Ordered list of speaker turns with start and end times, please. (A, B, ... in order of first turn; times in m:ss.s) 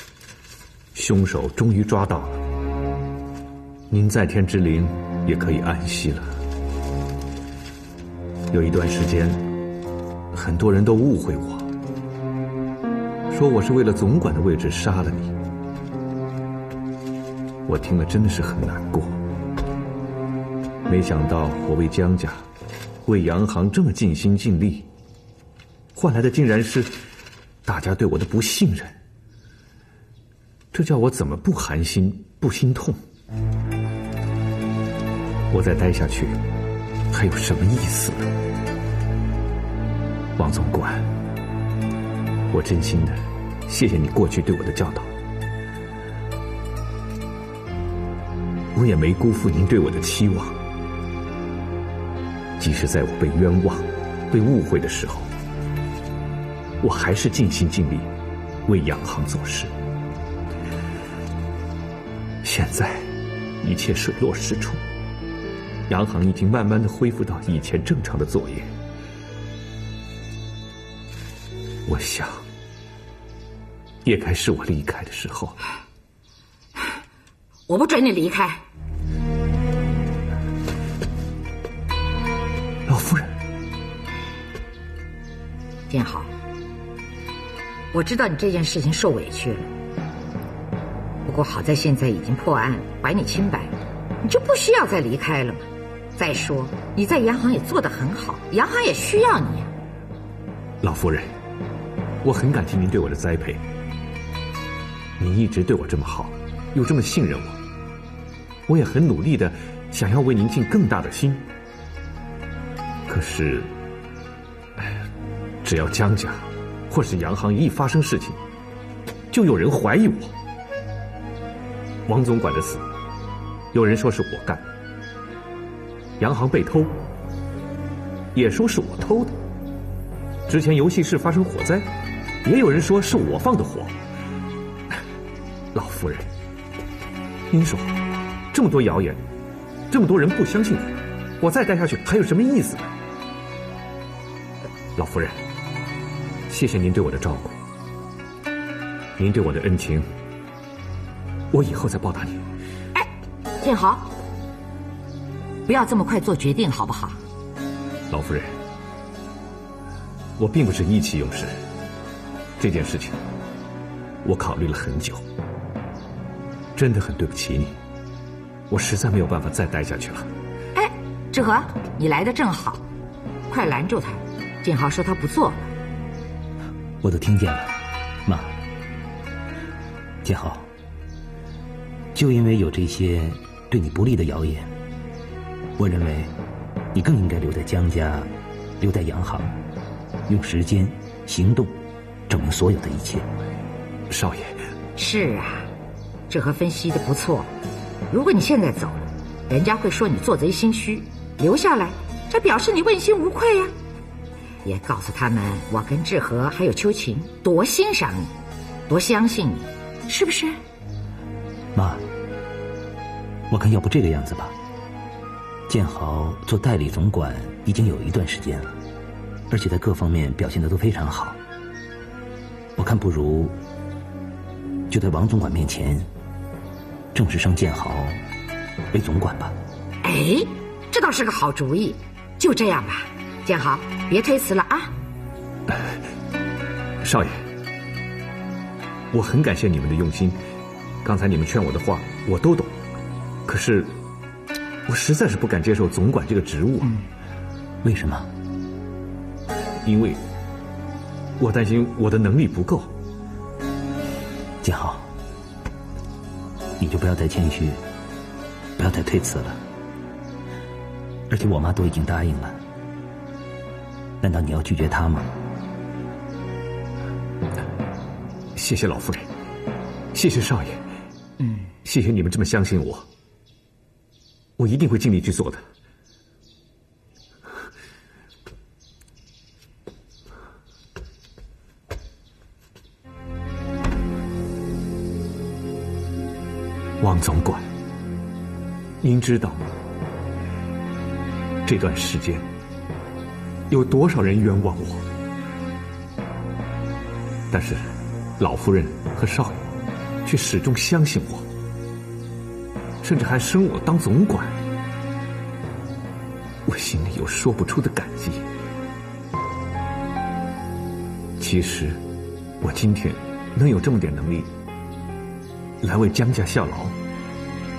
0:00.9-0:02.4 A
0:03.9-0:06.3 A
0:08.5-0:09.4 A
0:10.3-0:11.7 A
0:13.3-0:15.3 A
0:17.7-0:19.2 A
0:20.9-0:22.4 A
0:23.0-0:24.9 A
0:25.9-0:26.9 A
0:27.6-0:29.0 A
0:30.7-0:33.0 A
0:35.5-0:36.4 A
0:37.1-0:38.3 A
0:40.4-0:41.1 A
0:42.5-0:45.1 A
0:48.7-0:50.5 A
0:52.6-0:55.3 A
0:56.8-0:58.1 A
0:58.7-0:59.7 A
1:02.4-1:03.1 A
1:03.6-1:04.8 A
1:05.9-1:08.7 A
1:11.9-1:12.4 A
1:14.0-1:15.6 A
1:17.7-1:18.6 B
1:22.9-1:23.3 A
1:25.9-1:26.3 B
1:27.9-1:29.7 B
1:31.2-1:39.7 B
1:40.8-1:41.3 A
1:42.2-1:43.6 A
1:45.2-1:47.6 A
1:48.7-1:51.4 A
1:53.1-1:53.7 A
1:55.6-1:58.4 A
1:59.3-2:00.3 A
2:02.1-2:02.8 A
2:03.7-2:04.6 A
2:06.2-2:07.0 A
2:08.3-2:09.3 A
2:10.5-2:11.9 A
2:12.4-2:14.0 A
2:15.7-2:16.3 A
2:17.5-2:17.9 A
2:18.5-2:19.2 A
2:19.9-2:22.9 A
2:25.0-2:25.4 A
2:26.5-2:27.5 A
2:29.2-2:30.1 A
2:31.5-2:32.4 A
2:33.6-2:34.1 B
2:35.7-2:37.2 B
2:38.1-2:38.5 A
2:40.4-2:41.5 A
2:42.6-2:43.2 A
2:44.2-2:45.2 A
2:46.8-2:47.8 A
2:48.7-2:50.3 A
2:50.7-2:52.8 B
2:53.5-2:55.6 B
2:57.0-2:57.7 C
2:58.2-2:58.5 C
3:00.2-3:00.7 C
3:02.1-3:04.7 C
3:05.8-3:06.3 C
3:06.9-3:09.5 C
3:10.3-3:13.3 C
3:14.1-3:14.6 A
3:15.0-3:15.7 B
3:16.3-3:17.5 B
3:18.1-3:23.7 B
3:24.6-3:28.3 B
3:28.9-3:30.6 B
3:31.7-3:32.0 C
3:33.5-3:34.6 C
3:35.7-3:38.8 C
3:39.5-3:41.4 C
3:42.8-3:43.5 C
3:44.9-3:46.1 C
3:47.1-3:48.2 C
3:48.9-3:49.5 C
3:50.0-3:54.9 B
3:57.0-3:57.3 A
3:59.1-4:00.4 A
4:01.0-4:02.7 A
4:03.5-4:04.0 A
4:04.9-4:07.0 A
4:07.8-4:08.3 C
4:09.8-4:10.2 A
4:11.4-4:12.9 A
4:14.6-4:15.1 C
4:16.8-4:17.8 C
4:18.8-4:19.6 C
4:21.3-4:22.6 C
4:24.2-4:25.3 C
4:28.6-4:29.3 A
4:30.1-4:30.8 A
4:31.8-4:33.1 A
4:34.6-4:35.6 A
4:47.0-4:47.7 A
4:49.0-4:49.7 A
4:51.6-4:52.4 A
4:53.7-4:55.0 A
4:57.5-4:57.8 A
4:58.4-4:59.6 A
5:00.2-5:01.5 A
5:03.0-5:04.6 A
5:06.6-5:08.4 A
5:11.4-5:12.0 A
5:12.6-5:14.5 A
5:15.8-5:17.0 A